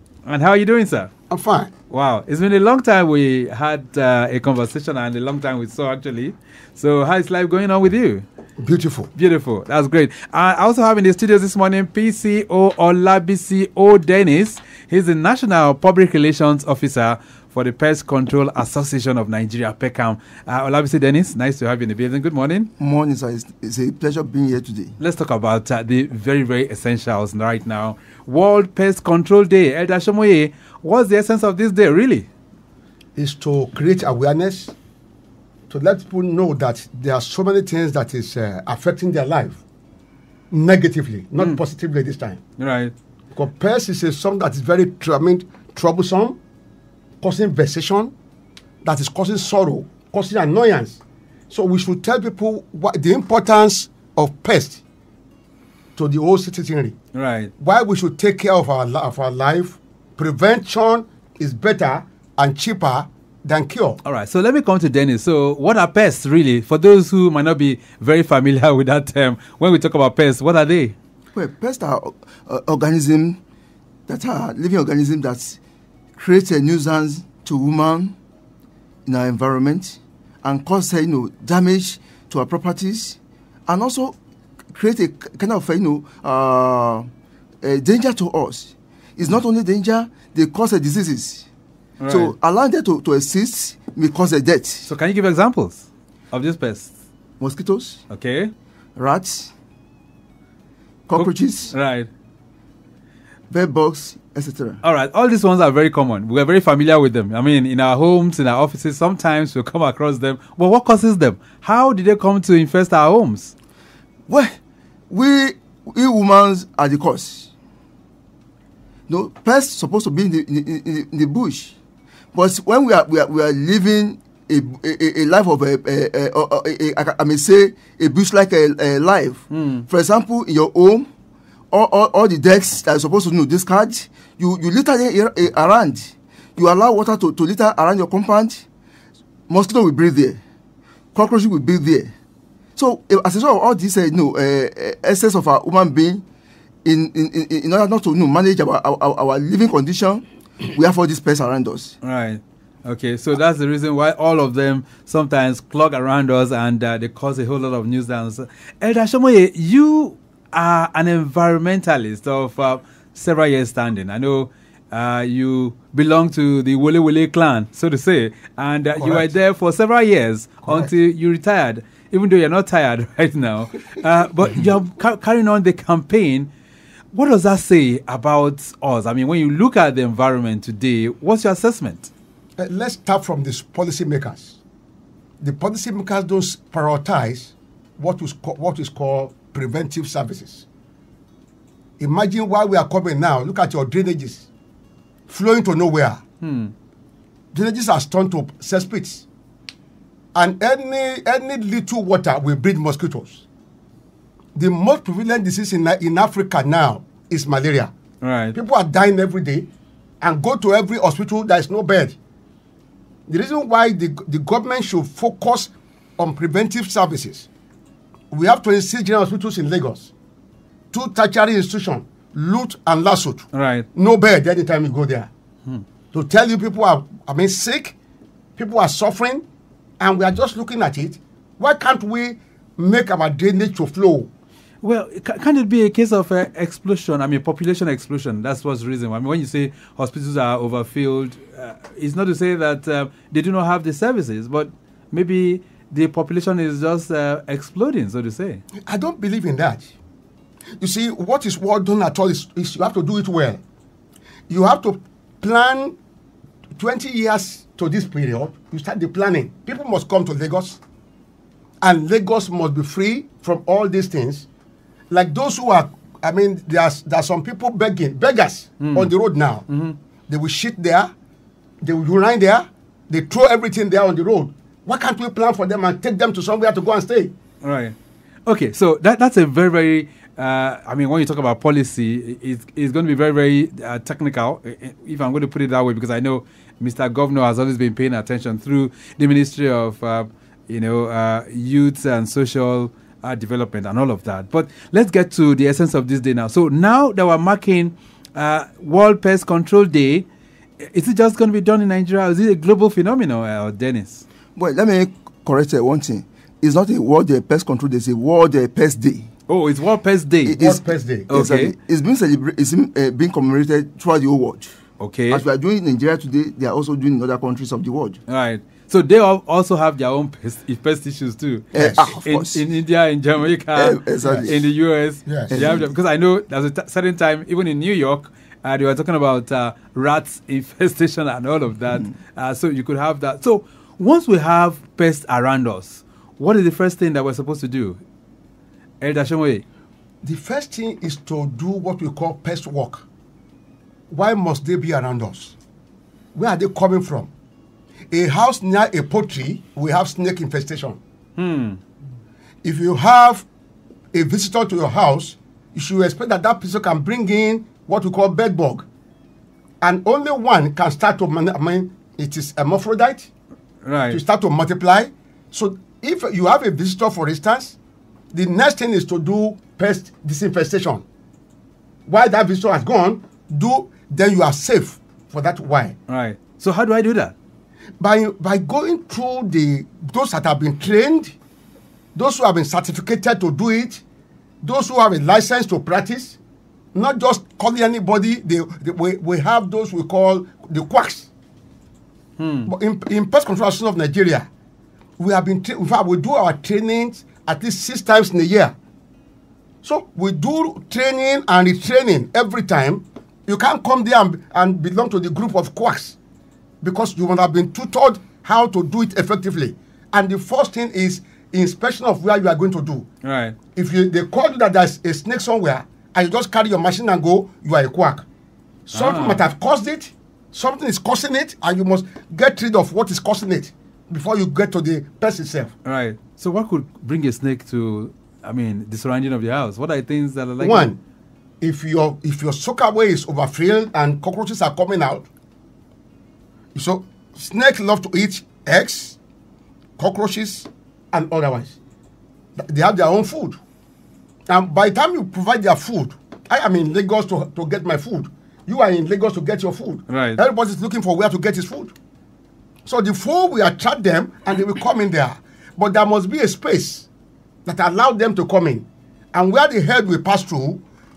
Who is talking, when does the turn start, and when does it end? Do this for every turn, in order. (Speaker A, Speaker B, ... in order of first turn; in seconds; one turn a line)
Speaker A: 0.2-1.1
Speaker B: 1.3-1.7
Speaker A: 1.9-8.2
Speaker B: 8.6-9.1
Speaker A: 9.1-22.7
Speaker C: 22.8-25.0
Speaker A: 25.0-32.3
Speaker B: 33.1-34.7
Speaker B: 35.7-39.6
Speaker B: 40.5-42.4
Speaker A: 42.6-42.9
Speaker B: 43.3-46.4
Speaker B: 47.2-48.1
Speaker B: 48.8-54.8
Speaker B: 56.0-57.0
Speaker A: 57.1-57.5
Speaker B: 57.6-64.0
Speaker A: 64.0-70.9
Speaker C: 71.3-73.4
Speaker C: 74.1-75.6
Speaker C: 76.2-78.2
Speaker C: 79.0-84.2
Speaker C: 84.7-87.1
Speaker C: 87.6-91.5
Speaker A: 92.0-92.3
Speaker C: 92.1-94.8
Speaker A: 94.8-96.9
Speaker C: 97.4-98.0
Speaker A: 98.1-98.5
Speaker C: 99.0-99.5
Speaker C: 101.1-101.7
Speaker A: 101.2-102.1
Speaker C: 103.5-104.8
Speaker A: 104.8-113.5
Speaker C: 114.3-114.5
Speaker C: 115.1-117.5
Speaker C: 119.1-121.7
Speaker C: 122.3-131.1
Speaker A: 129.5-129.8
Speaker C: 131.7-138.6
Speaker C: 139.5-140.4
Speaker C: 141.1-142.1
Speaker C: 142.8-146.2
Speaker C: 146.8-151.9
Speaker A: 152.0-176.5
Speaker B: 169.0-169.3
Speaker B: 170.6-170.9
Speaker A: 177.1-182.1
Speaker B: 182.6-184.6
Speaker B: 185.4-190.7
Speaker B: 192.0-194.5
Speaker B: 195.3-196.2
Speaker A: 196.4-196.7
Speaker B: 197.5-199.2
Speaker B: 200.3-203.4
Speaker B: 204.5-207.9
Speaker A: 208.2-208.5
Speaker B: 208.5-209.7
Speaker B: 210.2-212.2
Speaker B: 213.3-217.5
Speaker B: 218.3-220.1
Speaker B: 220.9-225.3
Speaker A: 223.5-223.9
Speaker B: 226.1-227.9
Speaker B: 228.6-229.4
Speaker B: 230.0-234.3
Speaker A: 234.8-248.6
Speaker B: 248.8-249.9
Speaker B: 250.8-253.6
Speaker B: 254.5-255.9
Speaker B: 256.7-260.8
Speaker B: 261.8-264.5
Speaker B: 265.1-269.6
Speaker A: 268.8-269.1
Speaker A: 269.7-270.0
Speaker B: 270.3-271.1
Speaker B: 271.8-277.3
Speaker A: 277.6-277.9
Speaker A: 278.4-300.3
Speaker A: 300.8-304.2
Speaker C: 304.5-309.3
Speaker A: 309.5-310.6
Speaker C: 310.4-314.7
Speaker B: 310.6-311.3
Speaker A: 311.3-311.7
Speaker A: 315.0-315.4
Speaker C: 315.3-318.2
Speaker A: 318.3-338.0
Speaker C: 321.7-322.6
Speaker B: 321.8-322.1
Speaker C: 323.7-324.7
Speaker B: 325.2-325.8
Speaker C: 325.5-325.9
Speaker A: 339.0-339.6
Speaker B: 340.2-343.0
Speaker B: 344.1-345.5
Speaker B: 346.3-347.3
Speaker B: 348.1-351.0
Speaker A: 351.4-351.8
Speaker B: 352.6-353.4
Speaker B: 354.1-358.9
Speaker B: 359.8-363.3
Speaker A: 363.8-364.2
Speaker B: 364.1-367.8
Speaker B: 368.3-371.0
Speaker B: 372.1-376.0
Speaker A: 376.1-377.3
Speaker B: 378.0-381.3
Speaker B: 382.1-384.0
Speaker B: 384.6-386.4
Speaker B: 386.9-391.3
Speaker A: 392.4-392.7
Speaker B: 392.6-394.5
Speaker B: 395.2-398.7
Speaker B: 399.8-406.2
Speaker B: 406.8-413.1
Speaker A: 413.2-413.6
Speaker B: 413.7-418.2
Speaker B: 418.9-425.7
Speaker A: 418.9-419.4
Speaker A: 425.8-430.9
Speaker B: 430.6-431.0
Speaker B: 431.6-435.3
Speaker B: 436.7-439.2
Speaker B: 440.0-441.8
Speaker B: 442.6-443.6
Speaker B: 444.5-451.9
Speaker A: 450.1-450.4
Speaker B: 452.8-457.1
Speaker B: 457.6-460.8